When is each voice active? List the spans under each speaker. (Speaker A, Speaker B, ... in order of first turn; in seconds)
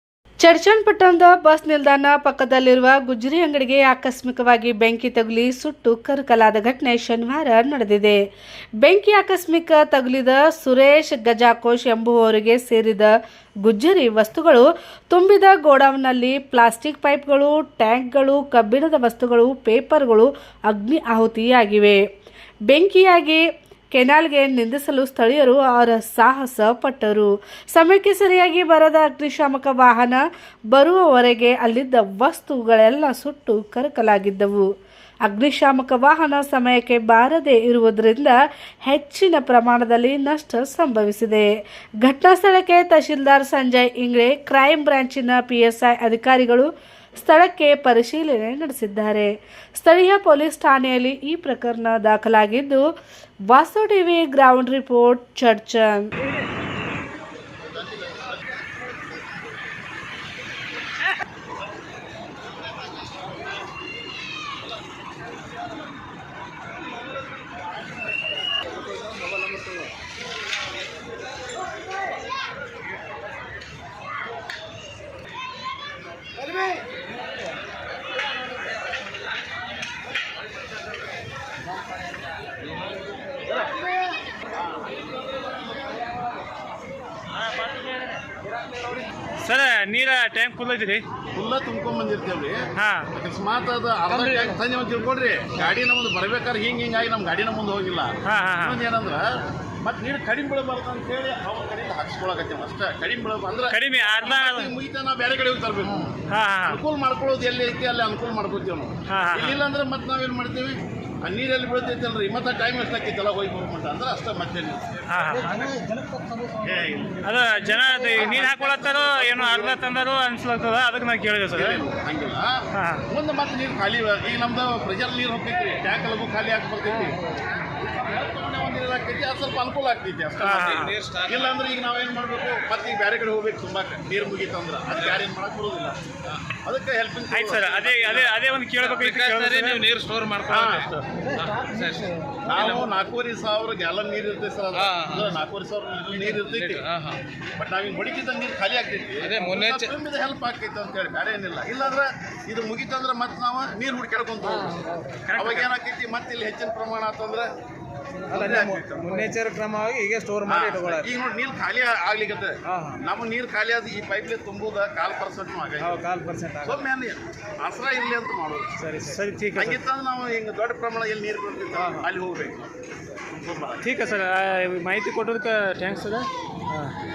Speaker A: 0.4-8.2, 8.8-22.0, 22.7-34.7, 35.2-52.8, 53.5-56.1
Speaker B: 57.9-58.4, 91.3-92.6, 93.2-115.0, 116.6-117.2, 117.9-119.9, 121.5-136.0, 136.6-138.3, 140.5-141.1, 142.5-146.9, 147.6-157.5, 158.3-159.2, 160.5-166.1, 166.6-168.8, 169.6-172.7, 173.4-173.9
Speaker C: 89.4-91.0, 92.8-93.1, 98.3-98.8, 103.7-104.7, 106.3-106.8, 109.1-109.6, 115.1-115.6, 117.2-121.8, 122.7-123.0, 130.4-130.9, 137.3-139.8, 155.3-155.7, 169.1-169.8, 173.8-176.9
Speaker D: 94.2-94.5, 115.3-116.8, 118.0-118.5, 130.6-131.6, 138.8-142.9, 144.7-145.4, 146.1-147.2, 149.2-149.9, 154.5-155.2, 158.2-161.1, 162.7-163.0, 165.8-166.9, 168.8-169.2, 171.8-172.1